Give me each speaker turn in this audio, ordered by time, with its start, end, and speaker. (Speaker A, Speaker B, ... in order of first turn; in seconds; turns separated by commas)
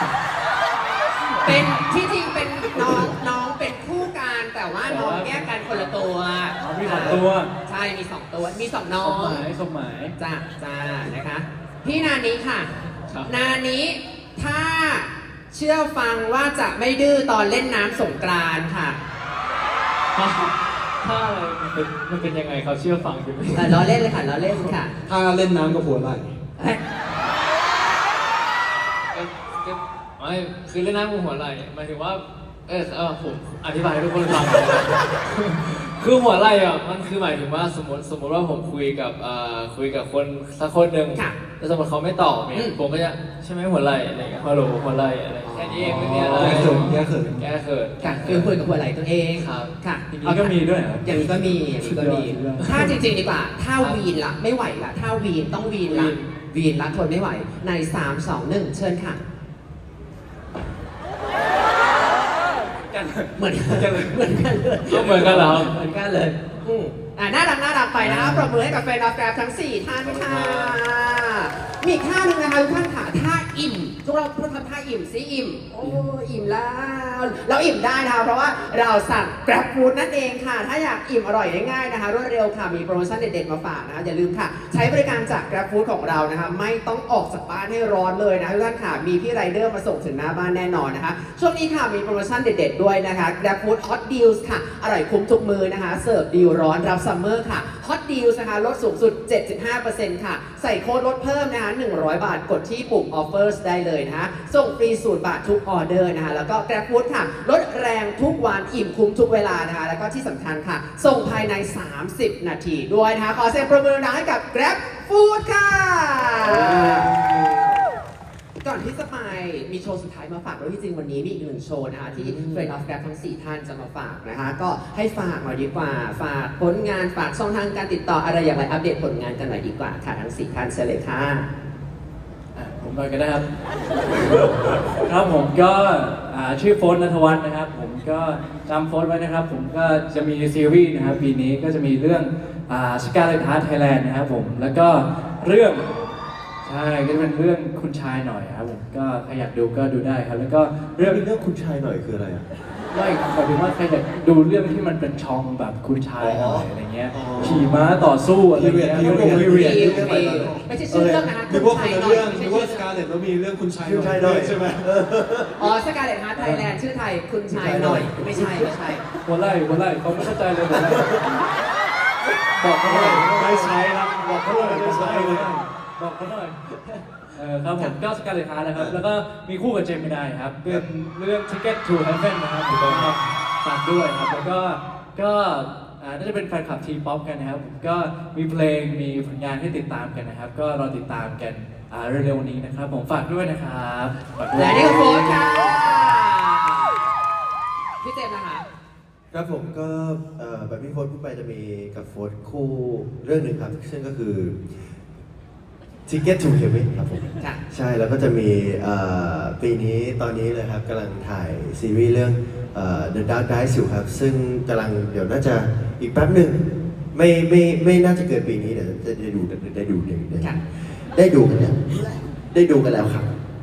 Speaker A: 1.4-9.5, Speaker B: 4.8-6.0, Speaker B: 6.6-7.5, Speaker B: 9.0-10.2, Speaker A: 10.2-12.7, Speaker C: 13.1-13.3, Speaker A: 13.3-19.0, Speaker C: 20.1-24.8, Speaker A: 23.5-25.0, Speaker D: 25.1-26.4, Speaker C: 29.1-48.6, Speaker A: 45.5-46.8, Speaker B: 45.9-46.3, Speaker D: 46.4-47.4, Speaker A: 48.0-59.2, Speaker C: 49.4-49.8, Speaker B: 50.1-53.0, Speaker C: 53.8-54.0, Speaker C: 55.9-56.3, Speaker A: 63.4-117.1, Speaker C: 64.9-65.8, Speaker C: 70.4-70.7, Speaker A: 118.6-131.5, Speaker B: 132.6-133.4, Speaker B: 134.2-145.9, Speaker B: 146.6-151.2, Speaker E: 151.0-152.4, Speaker B: 152.9-160.3, Speaker E: 156.2-156.7, Speaker E: 157.3-157.7, Speaker D: 158.6-164.8, Speaker A: 158.9-162.8, Speaker E: 163.8-165.6, Speaker A: 165.6-169.1, Speaker E: 166.4-166.6, Speaker E: 167.5-168.7, Speaker B: 169.2-171.2, Speaker E: 170.8-171.2, Speaker B: 172.5-176.6, Speaker D: 172.8-175.5, Speaker B: 177.3-196.1, Speaker E: 178.8-179.0, Speaker A: 194.5-196.9, Speaker A: 198.0-198.7, Speaker E: 199.3-204.6, Speaker E: 206.1-216.6, Speaker E: 217.1-223.3